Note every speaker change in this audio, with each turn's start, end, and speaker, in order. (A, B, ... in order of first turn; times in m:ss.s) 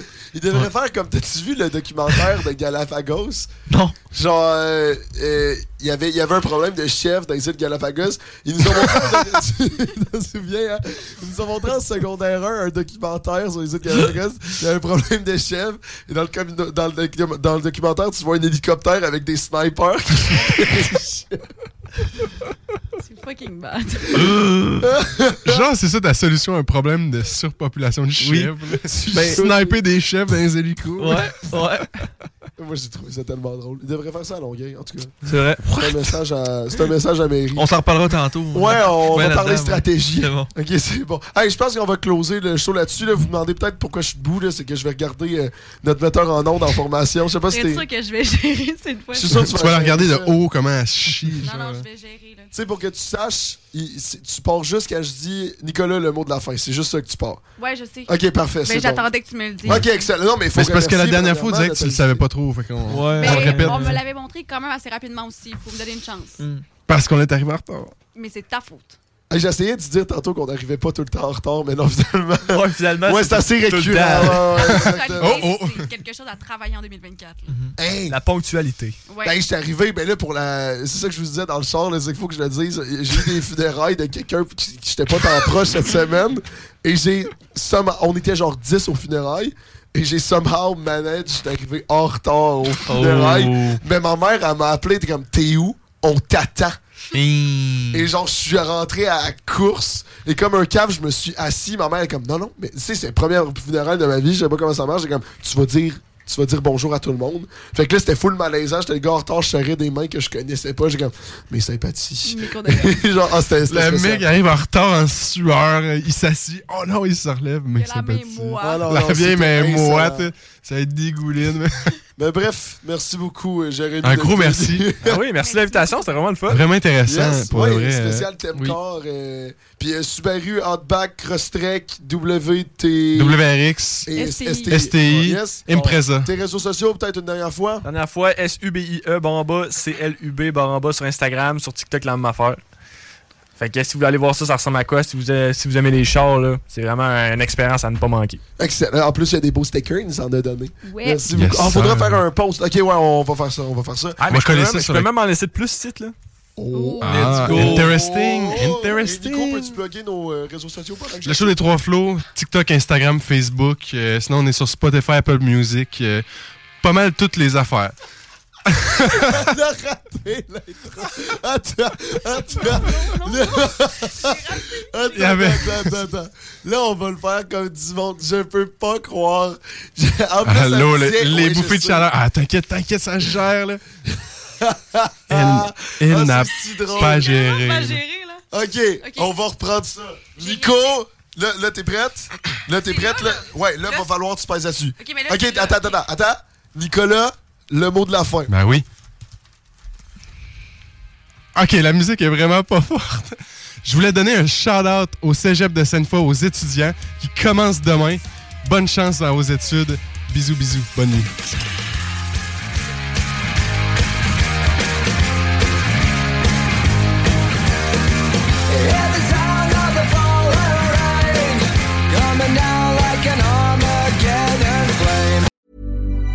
0:00.3-0:03.5 A
0:03.7-0:04.0 B
0:04.1-0:21.4 A
0:23.0-0:24.3 C
0:24.2-0:24.8 B
0:24.8-0:25.6 A
0:25.4-0:31.8 D
0:28.2-0:29.6 B
0:29.3-0:29.7 A
0:31.0-0:32.0 B
0:32.6-0:35.2 A
0:35.2-0:36.2 B
0:35.7-0:37.7 A
0:37.5-0:40.5 B
0:38.5-0:47.9 A
0:47.5-0:49.4 C
0:49.1-0:50.4 A
0:49.3-0:51.8 D
0:51.4-0:52.5 C
0:52.5-0:57.4 A
0:57.6-1:00.1 C
0:58.0-0:59.1 A
0:59.6-1:02.2 A
1:00.6-1:04.0 D
1:02.9-1:04.0 B
1:03.1-1:06.4 C
1:06.4-1:06.6 B
1:06.9-1:07.9 D
1:08.1-1:09.0 C
1:09.3-1:15.5 A
1:12.5-1:14.5 E
1:14.5-1:17.5 C
1:14.6-1:15.9 D
1:17.5-1:17.8 B
1:17.8-1:18.2 A
1:18.1-1:19.0 E
1:19.1-1:19.4 C
1:19.2-1:36.8 A
1:32.8-1:33.8 B
1:37.1-1:38.1 B
1:37.9-1:54.3 A
1:52.2-1:53.0 C
1:53.7-2:01.9 D
1:57.7-1:58.9 C
1:58.6-2:00.3 A
2:02.2-2:05.2 A
2:04.0-2:04.8 D
2:05.0-2:06.6 E
2:05.4-2:06.1 C
2:06.5-2:08.3 D
2:07.0-2:13.4 A
2:13.1-2:14.1 D
2:14.0-2:15.7 A
2:14.1-2:14.8 C
2:14.7-2:16.3 D
2:16.2-2:17.8 A
2:17.8-2:22.6 E
2:23.6-2:28.4 E
2:28.6-2:34.2 A
2:30.8-2:31.3 C
2:31.3-2:32.2 D
2:34.2-2:36.1 E
2:34.2-2:35.1 D
2:36.6-2:41.6 A
2:36.7-2:37.2 C
2:37.0-2:39.8 D
2:37.0-2:38.0 B
2:41.2-2:46.2 D
2:46.8-2:47.9 D
2:48.7-2:49.5 D
2:49.2-3:02.1 A
2:52.3-2:55.7 C
2:55.1-2:56.0 D
3:00.4-3:03.8 D
3:04.6-3:07.3 A
3:05.3-3:08.0 D
3:06.9-3:08.4 C
3:08.5-3:18.5 A
3:09.0-3:09.3 C
3:10.4-3:11.0 C
3:12.7-3:14.1 C
3:15.0-3:16.0 C
3:18.5-3:18.8 D
3:21.5-3:31.3 D
3:38.7-3:45.5 F